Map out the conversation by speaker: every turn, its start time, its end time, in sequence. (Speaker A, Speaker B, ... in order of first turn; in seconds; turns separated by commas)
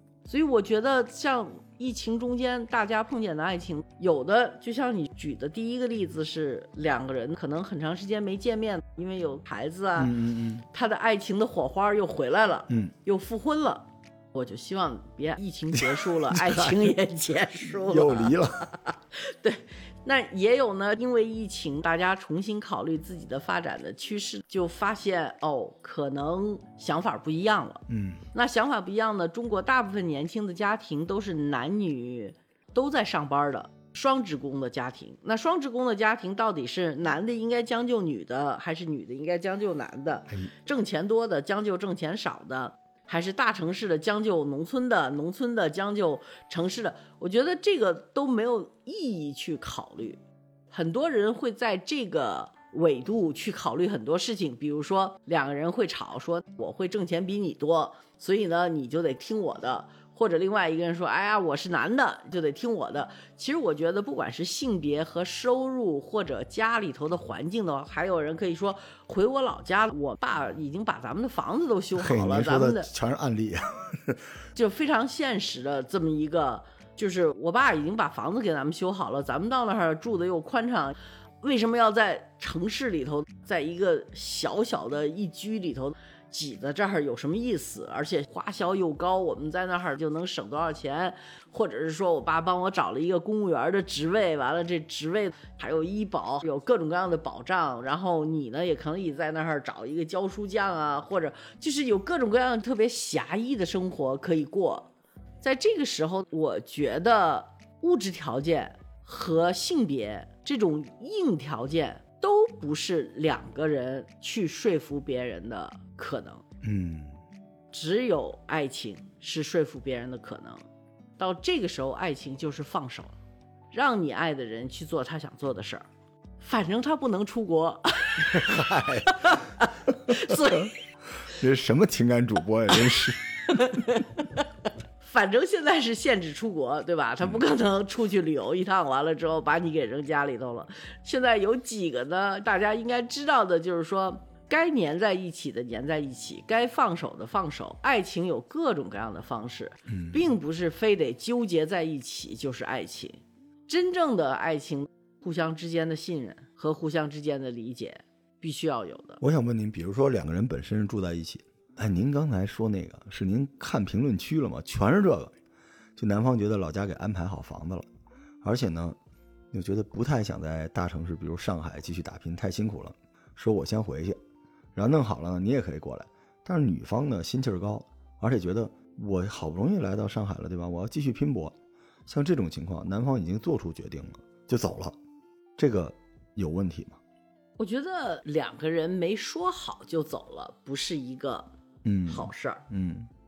Speaker A: 0.2-10.1, Speaker B: 10.0-10.6, Speaker A: 10.7-72.9, Speaker B: 16.3-16.9, Speaker B: 17.6-18.7, Speaker B: 27.9-28.2, Speaker B: 71.9-74.2, Speaker A: 74.5-104.9, Speaker A: 105.4-116.4, Speaker B: 116.6-117.2, Speaker A: 117.7-120.6, Speaker A: 121.2-123.2, Speaker A: 123.7-125.8, Speaker A: 126.4-130.7, Speaker B: 128.3-129.3, Speaker B: 130.1-130.3, Speaker B: 131.2-134.0, Speaker A: 133.5-134.4, Speaker A: 135.0-159.2, Speaker B: 149.9-150.2, Speaker B: 159.2-165.3, Speaker B: 165.9-167.9, Speaker B: 168.4-169.0, Speaker B: 169.5-174.2, Speaker B: 174.7-181.5, Speaker B: 182.1-184.9, Speaker B: 185.6-187.0, Speaker A: 187.6-191.5, Speaker B: 191.8-193.1, Speaker A: 192.1-192.6